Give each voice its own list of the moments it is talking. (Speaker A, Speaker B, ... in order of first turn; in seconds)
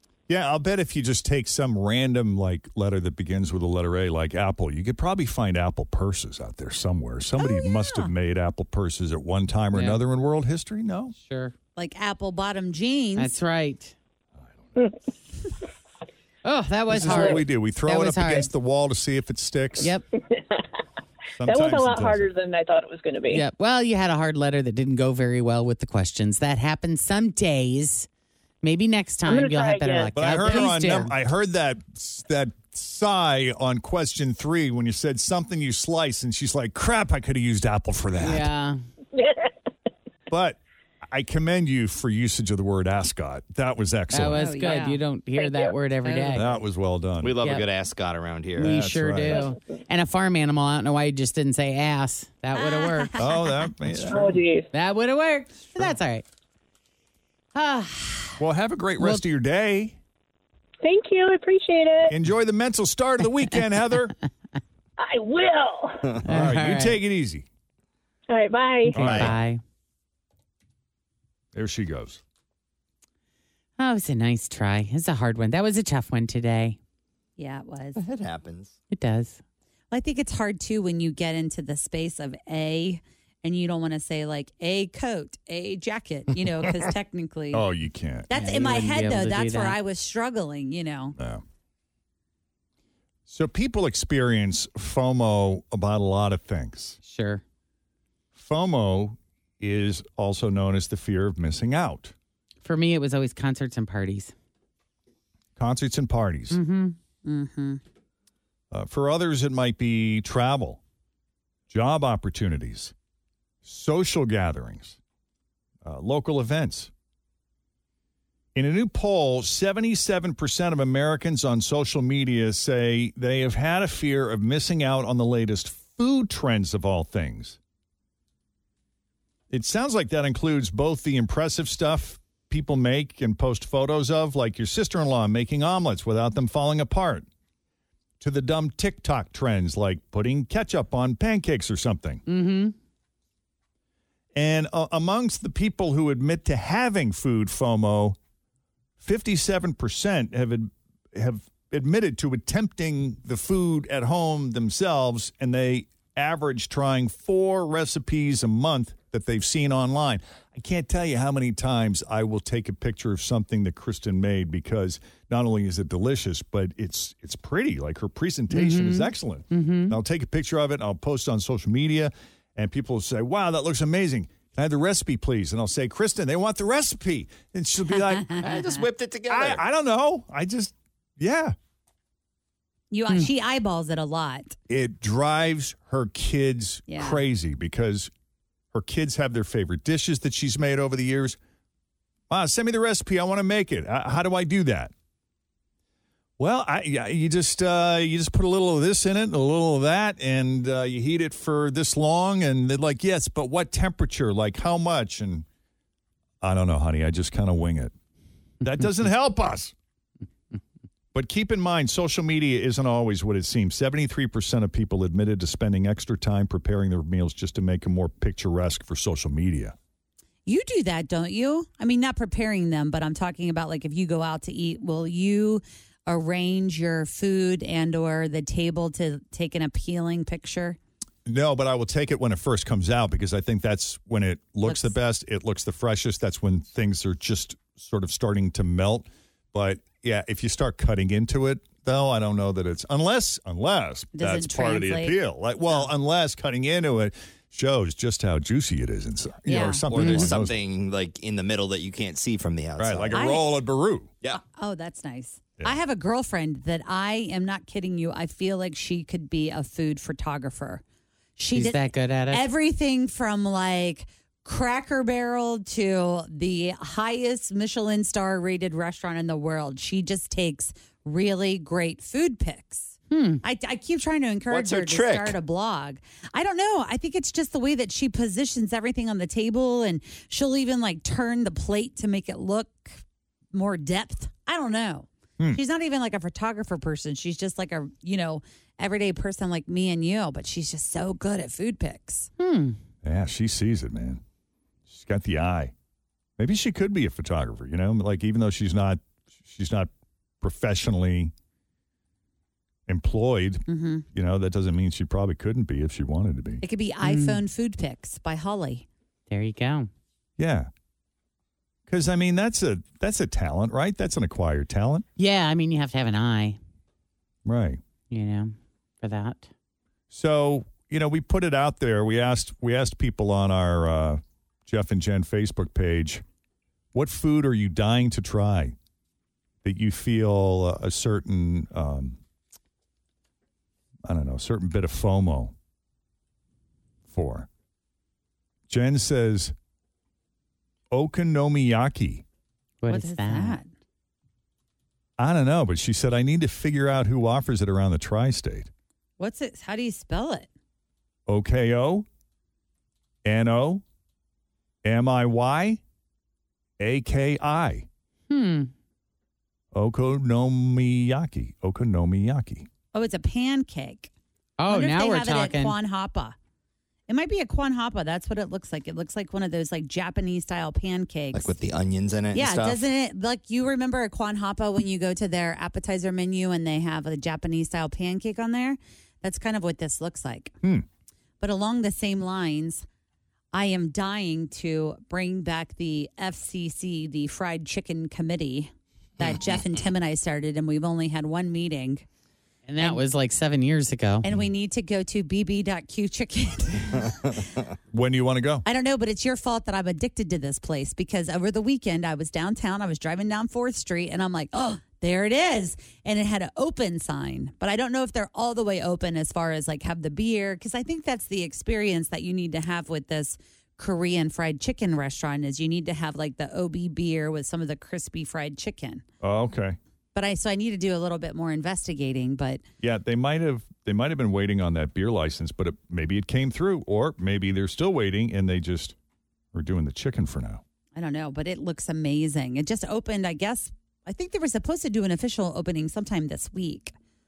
Speaker A: 0.3-11.2, 16.9-19.9, 21.4-22.3, 30.1-38.5, 40.3-44.5, 46.3-47.3, 48.6-49.5, 53.2-54.4, 58.4-60.0, 62.1-64.1, 66.2-67.5, 69.0-69.4, 71.5-72.2, 87.5-88.3, 91.2-91.4, 93.3-97.0, 98.3-102.1, 105.6-106.6, 108.7-110.8, 111.7-112.9, 113.6-115.0, 115.8-116.9, 118.5-127.6, 129.5-137.3, 138.2-142.2, 144.3-148.2, 149.0-178.4, 179.3-181.6, 184.7-188.1, 188.7-191.4, 192.3-194.9, 196.4-205.5, 206.4-207.9, 208.6-209.7, 211.1-219.8, 231.3-250.6, 252.8-254.1, 293.0-294.2, 294.9-295.7, 296.4-299.9, 300.4-301.3, 302.9-306.6, 310.4-310.7, 311.9-315.1, 317.5-317.8, 320.1-326.2, 326.9-328.8, 329.6-332.2, 334.0-335.5, 337.1-337.5, 338.7-339.5, 340.9-342.2, 345.2-348.7, 351.3-352.1, 353.2-353.8, 354.8-355.8, 356.8-357.9, 359.7-362.7, 397.9-398.7, 419.2-419.8, 422.8-428.9, 429.5-430.6
Speaker B: 7.6-8.1, 11.8-13.3, 44.4-45.0, 46.0-46.4, 52.5-53.6, 77.4-78.0, 79.9-87.7, 88.3-91.2, 107.2-107.8, 178.2-178.8, 182.9-184.6, 186.9-187.2, 220.5-230.8, 234.7-234.9, 244.2-245.9, 249.5-249.9, 253.1-253.5, 254.3-260.8, 261.4-283.0, 283.5-292.3, 303.7-304.1, 306.6-308.9, 342.9-343.7, 349.2-350.5, 362.9-364.1, 364.7-366.4, 367.1-371.6, 372.3-380.6, 381.4-382.9, 383.5-392.1, 394.2-397.4, 398.6-419.0, 420.1-422.6, 431.0-436.9
Speaker C: 9.7-10.0, 11.2-11.6, 13.2-13.9, 16.4-18.5, 23.3-28.1, 28.6-31.1, 38.2-38.8, 44.1-46.5, 48.6-53.1, 54.7-56.2, 57.5-58.4, 66.2-67.0, 68.9-69.6, 73.8-76.8, 78.9-79.4, 88.3-89.8, 97.1-97.4, 102.6-104.3, 106.5-107.0, 142.3-142.8, 168.5-170.0, 249.9-250.3, 261.6-262.5, 273.1-273.4, 292.4-292.8, 307.0-307.4, 309.3-309.9, 315.2-316.6, 318.1-319.5, 342.8-343.6, 358.3-358.7, 364.6-365.8, 392.7-394.3
Speaker D: 17.0-17.4, 21.4-23.4, 29.3-30.7, 39.1-39.5, 45.3-45.8, 54.0-54.7, 60.8-62.1, 65.0-66.1, 68.3-69.0
Speaker E: 47.2-48.8, 69.0-69.3, 78.0-78.8, 178.3-179.6, 249.9-253.2, 274.5-275.4, 371.3-372.8